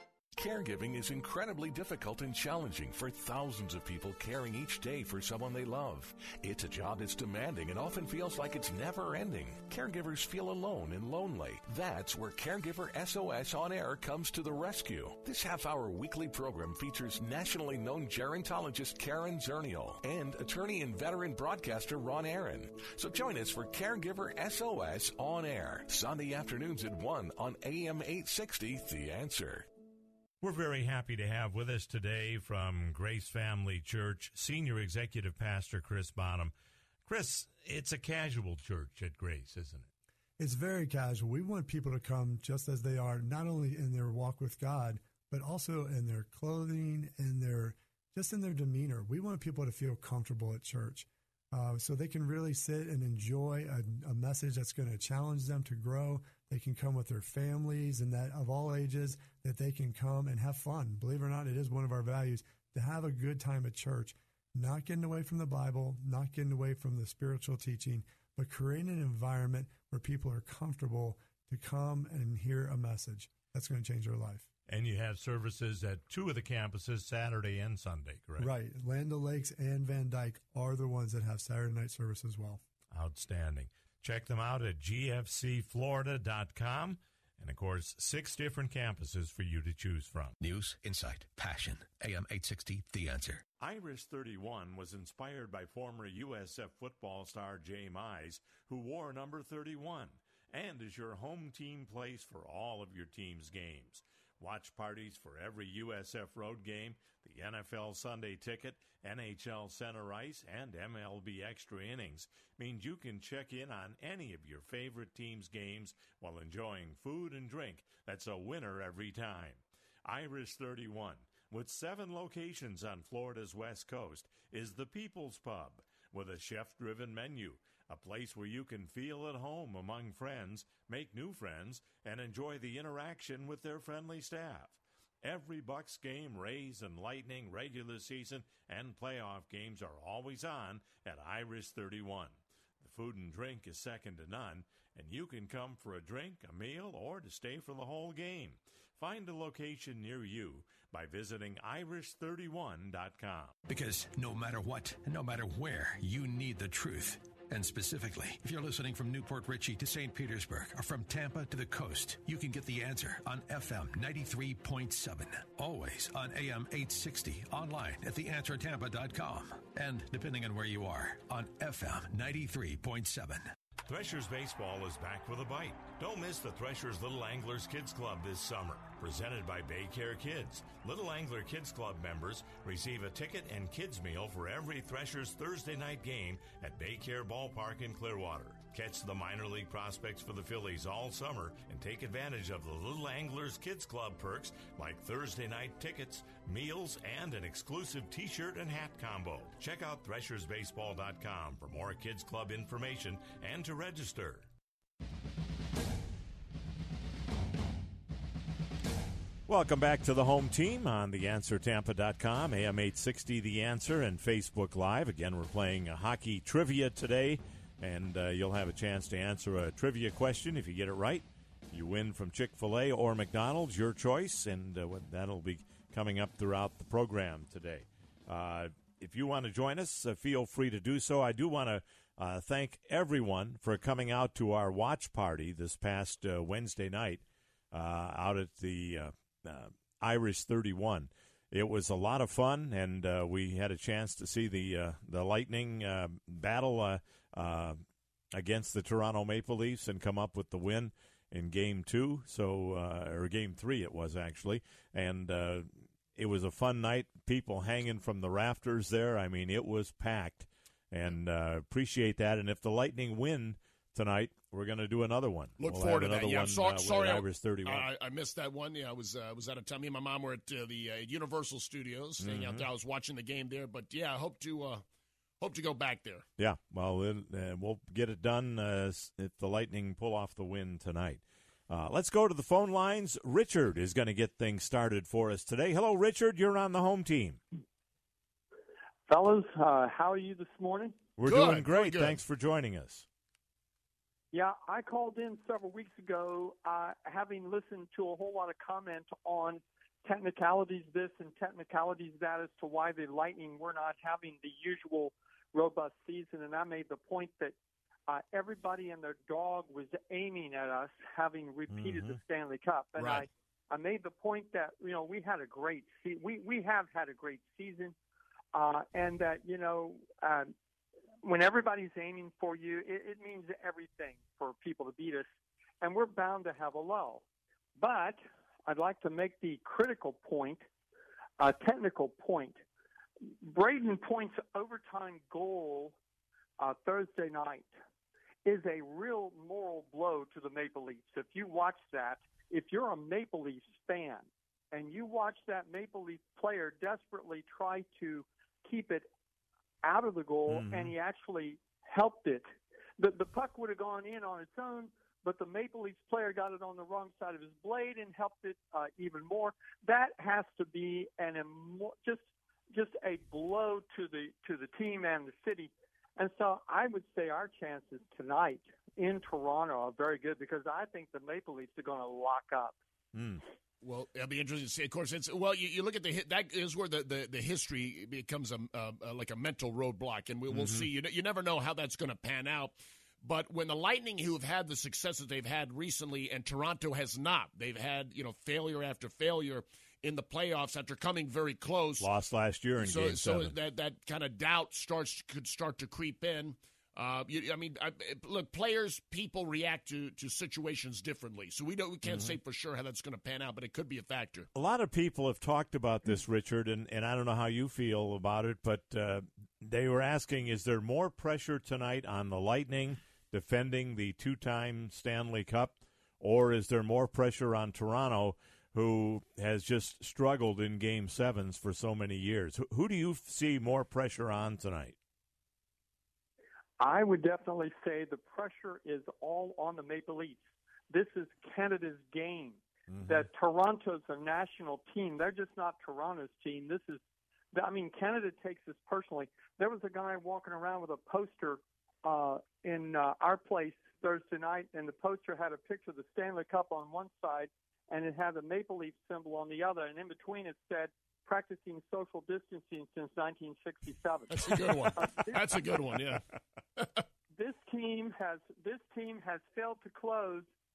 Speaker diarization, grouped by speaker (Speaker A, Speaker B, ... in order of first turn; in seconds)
Speaker A: 0.3-29.6
Speaker B: 30.4-36.5, 37.0-39.9, 74.7-78.5, 82.9-90.3, 93.6-153.5, 173.8-204.5, 209.5-247.8, 248.3-267.9, 272.2-272.7, 276.4-287.4, 291.2-293.1, 311.7-312.2, 350.5-350.9, 373.1-373.4, 380.5-380.9, 392.0-393.5, 402.0-402.4, 404.5-424.9, 432.9-433.3
Speaker C: 40.4-74.5, 78.4-82.6
Speaker D: 90.4-93.4, 153.7-173.5
Speaker E: 265.6-274.8, 275.4-276.2, 291.2-292.2, 313.0-313.2, 373.8-392.1, 392.8-404.5, 454.3-456.2, 456.8-457.0
Speaker F: 289.1-291.0, 294.3-307.5, 308.1-317.9, 318.5-320.5, 321.2-325.2, 325.8-327.2, 327.8-330.6, 331.4-332.6, 333.4-335.9, 336.6-337.7, 338.4-349.1, 349.8-352.4, 353.0-372.8, 426.8-437.0, 437.5-455.9, 457.4-460.5